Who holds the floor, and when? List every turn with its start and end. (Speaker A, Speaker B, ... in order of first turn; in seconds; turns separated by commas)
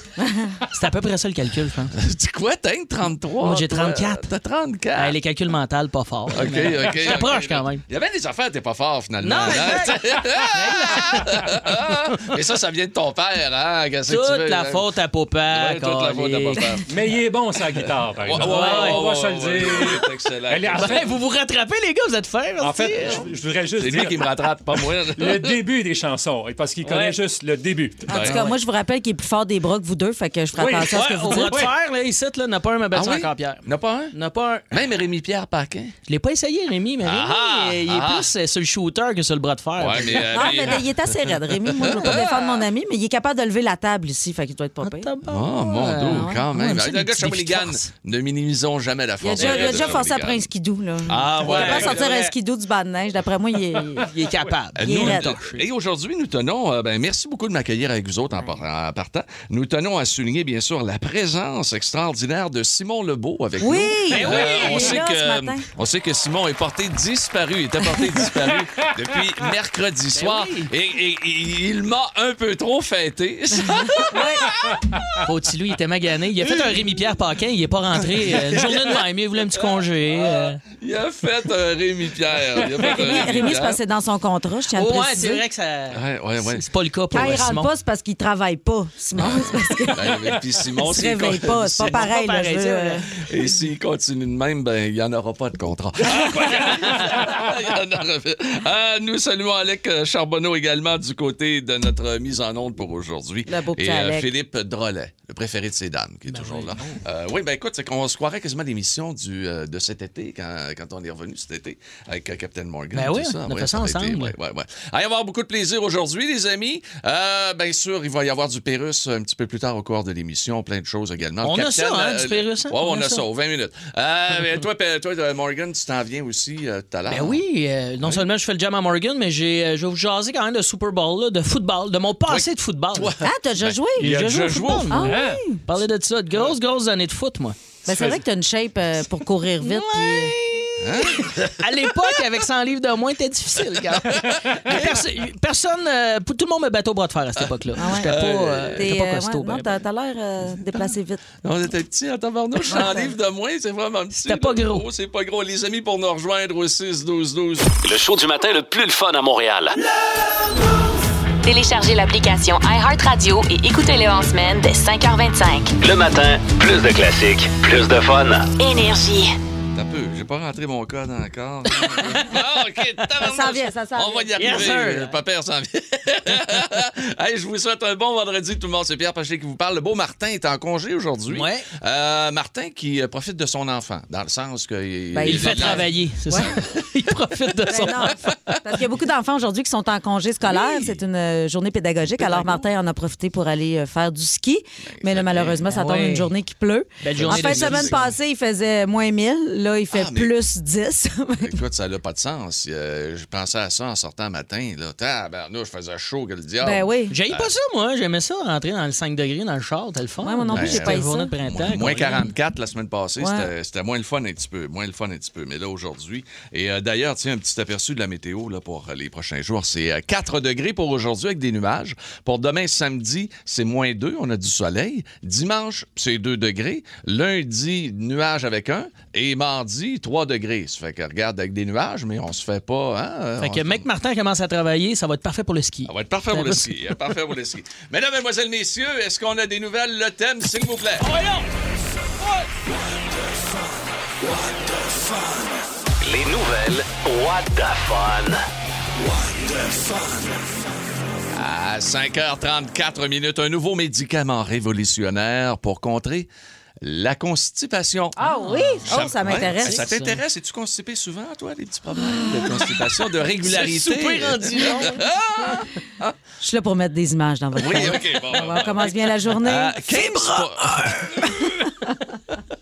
Speaker A: 0.2-0.5, Speaker B: 0.7-1.9, Speaker C: 1.9-5.2, Speaker B: 3.4-4.3, Speaker B: 5.0-7.8, Speaker C: 6.3-14.8, Speaker B: 9.2-12.2, Speaker B: 14.1-16.6, Speaker C: 15.5-16.9, Speaker D: 16.9-21.1, Speaker C: 17.7-21.0, Speaker B: 18.3-19.1, Speaker B: 20.7-23.2, Speaker D: 22.6-24.3, Speaker C: 23.8-25.6, Speaker D: 24.8-28.4, Speaker B: 26.8-27.1, Speaker C: 28.1-28.4, Speaker A: 28.1-31.7, Speaker B: 30.5-34.6, Speaker D: 30.6-31.7, Speaker C: 32.9-34.1, Speaker C: 34.7-35.9, Speaker B: 36.1-40.8, Speaker C: 37.0-38.2, Speaker C: 39.8-42.5, Speaker A: 40.1-45.1, Speaker B: 42.0-42.3, Speaker B: 44.8-47.9, Speaker C: 45.3-50.5, Speaker A: 46.0-46.4, Speaker A: 49.2-54.0, Speaker B: 49.4-50.0, Speaker C: 51.1-52.0, Speaker B: 51.4-52.3, Speaker B: 54.0-55.6, Speaker C: 54.8-75.2, Speaker A: 54.8-55.3, Speaker A: 63.6-65.7, Speaker B: 64.1-65.0, Speaker B: 70.1-70.7, Speaker A: 73.7-74.5, Speaker B: 75.2-80.6, Speaker C: 78.5-79.0, Speaker C: 80.1-83.8, Speaker A: 82.8-85.4, Speaker B: 84.7-87.7, Speaker C: 85.9-86.6, Speaker A: 87.1-93.1, Speaker C: 89.1-92.0, Speaker B: 91.8-93.0, Speaker C: 93.1-127.4, Speaker B: 96.6-96.9, Speaker A: 103.5-104.3, Speaker B: 106.3-107.0, Speaker B: 112.9-114.3, Speaker B: 121.4-123.2, Speaker B: 127.1-133.1, Speaker C: 132.3-135.0, Speaker A: 133.2-134.1, Speaker B: 134.0-137.6, Speaker A: 134.9-135.6, Speaker D: 135.0-135.4, Speaker A: 137.8-140.3, Speaker D: 137.9-138.2, Speaker B: 139.6-149.7, Speaker C: 140.8-141.9, Speaker C: 143.7-145.0, Speaker A: 147.8-148.1, Speaker C: 148.1-148.8, Speaker A: 148.7-151.2, Speaker C: 151.4-157.7, Speaker A: 152.7-153.1, Speaker B: 154.2-154.8, Speaker E: 157.8-159.8, Speaker F: 161.4-165.7, Speaker E: 165.8-168.5, Speaker F: 168.6-169.3, Speaker C: 169.7-185.9, Speaker A: 173.2-174.3, Speaker B: 174.4-175.1, Speaker B: 181.3-181.7, Speaker A: 185.1-186.6, Speaker B: 185.2-188.3, Speaker A: 187.7-201.6, Speaker C: 190.4-191.0, Speaker C: 194.9-195.6, Speaker B: 195.7-196.3, Speaker B: 197.0-198.1, Speaker C: 197.2-198.0, Speaker C: 199.9-200.3, Speaker C: 201.4-207.5, Speaker A: 206.6-207.2, Speaker B: 207.1-212.3, Speaker A: 210.2-211.3, Speaker C: 210.5-233.8, Speaker A: 213.2-213.5, Speaker B: 233.4-236.7, Speaker C: 235.9-241.1, Speaker B: 241.0-241.4, Speaker E: 246.0-248.4, Speaker C: 251.3-256.3, Speaker C: 256.8-258.2, Speaker A: 258.2-259.9, Speaker B: 258.2-259.0, Speaker C: 258.9-266.1, Speaker B: 259.6-260.2, Speaker A: 262.0-262.8, Speaker B: 263.4-265.1, Speaker A: 266.4-269.7, Speaker C: 267.6-271.6, Speaker B: 269.9-271.2